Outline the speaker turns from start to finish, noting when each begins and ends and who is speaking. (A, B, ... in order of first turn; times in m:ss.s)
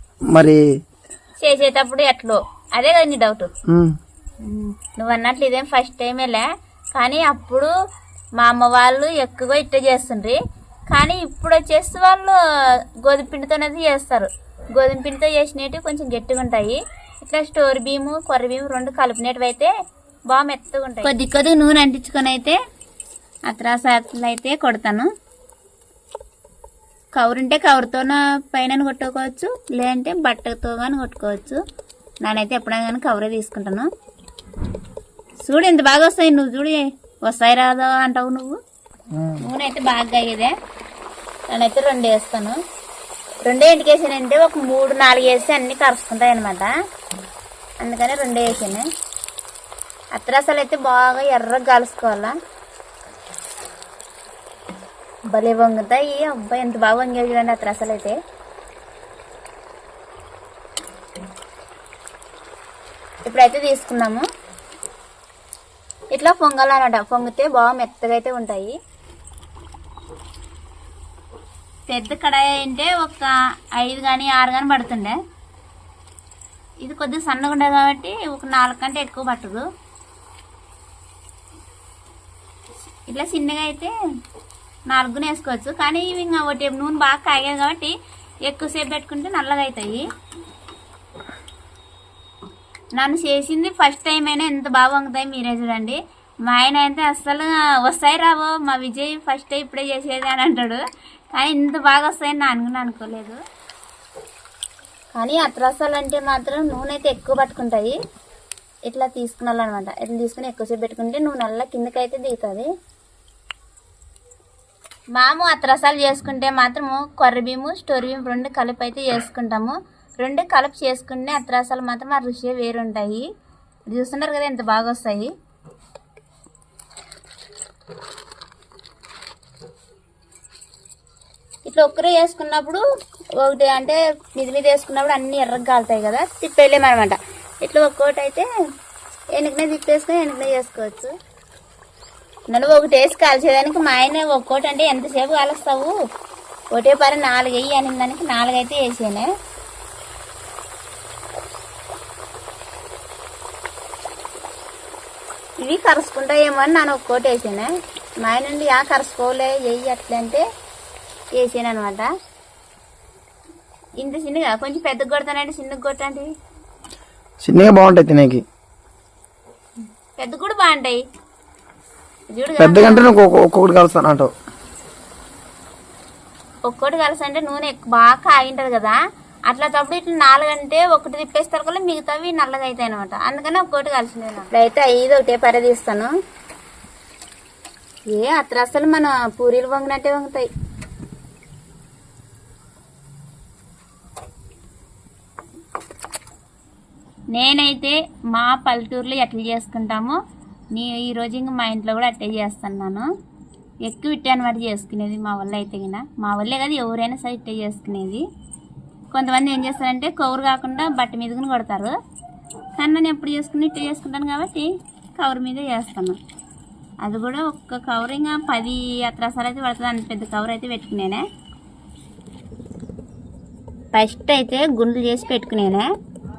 0:00.3-0:00.6 A
0:01.4-0:03.5 B
0:03.7-0:04.0 A
0:04.4-0:07.7 B
0:08.4-0:10.4 B
0:10.9-0:12.4 B
0:13.0-0:19.7 B
0:20.3-0:22.6 B
0:23.5-0:25.1 B
0:27.1-0:31.6 B
0:32.2-0:33.9 B
0:35.4-0:38.6 B
0:39.1-0:39.4 A
0:39.4-0:40.5 B
0:41.5-0:42.6 B
0:43.4-0:46.7 B
0:47.8-0:48.8 B
0:50.1-0:52.4 B
0:55.3-0:58.2 B
1:03.2-1:04.3 B
1:06.1-1:08.8 B
1:11.9-1:15.2 B
1:16.8-1:19.6 B
1:23.1-1:23.9 B
1:24.9-1:30.0 B
1:32.9-1:43.4 B
1:45.1-1:48.0 B
1:48.8-1:52.7 B
1:55.1-2:03.2 B
2:03.9-2:05.3 B
2:11.6-2:12.8 B
2:13.4-2:18.4 B
2:19.3-2:21.1 B
2:22.5-2:25.9 B
2:26.7-2:29.3 B
2:35.6-2:37.7 B
2:38.2-2:40.4 B
2:41.4-2:42.1 B
2:44.0-2:46.3 B
2:47.4-2:48.4 A
2:50.2-2:51.0 B
2:52.3-2:53.1 B
2:52.6-2:54.3 A
2:56.6-3:06.1 B
3:08.1-3:10.5 B
3:17.3-3:20.2 B
3:20.7-3:23.1 B
3:23.8-3:28.2 B
3:29.1-3:32.0 B
3:32.8-3:36.2 B
3:37.0-3:41.2 B
3:43.9-3:45.9 B